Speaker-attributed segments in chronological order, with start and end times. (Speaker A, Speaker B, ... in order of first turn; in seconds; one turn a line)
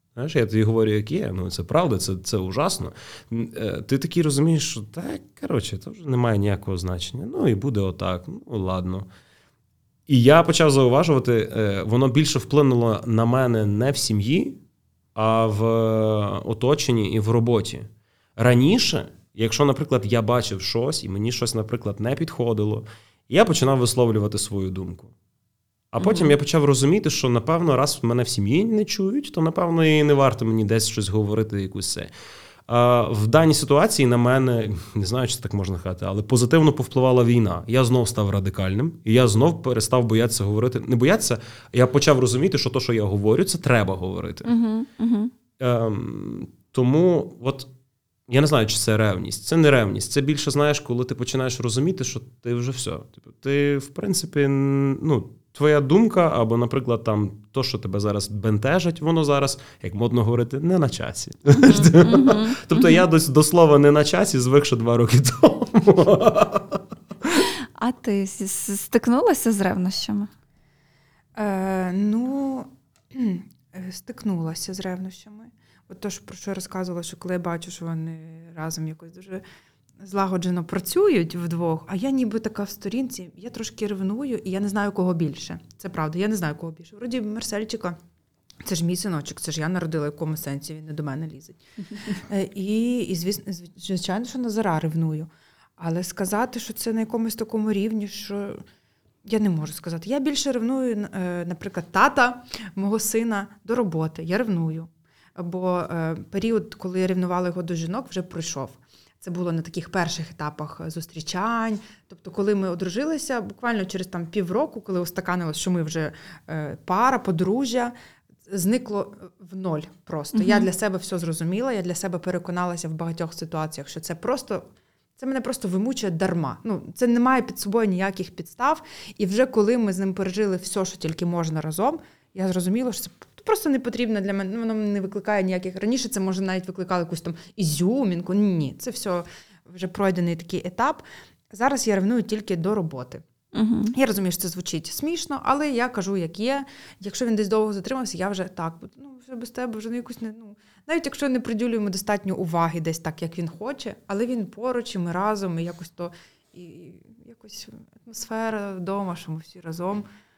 Speaker A: 0.1-9.1
Speaker A: 10.1-14.6
Speaker A: 15.1-25.1
Speaker A: 25.9-32.1
Speaker B: 26.0-26.3
Speaker A: 32.7-44.5
Speaker B: 44.4-45.3
Speaker A: 45.6-47.7
Speaker A: 48.3-67.4
Speaker B: 61.6-63.0
Speaker B: 67.8-70.3
Speaker C: 71.4-79.4
Speaker C: 80.0-88.0
Speaker C: 88.6-98.6
Speaker C: 99.2-117.9
Speaker C: 118.5-124.7
Speaker B: 120.3-120.7
Speaker C: 125.2-143.2
Speaker B: 143.5-143.9
Speaker C: 143.9-160.1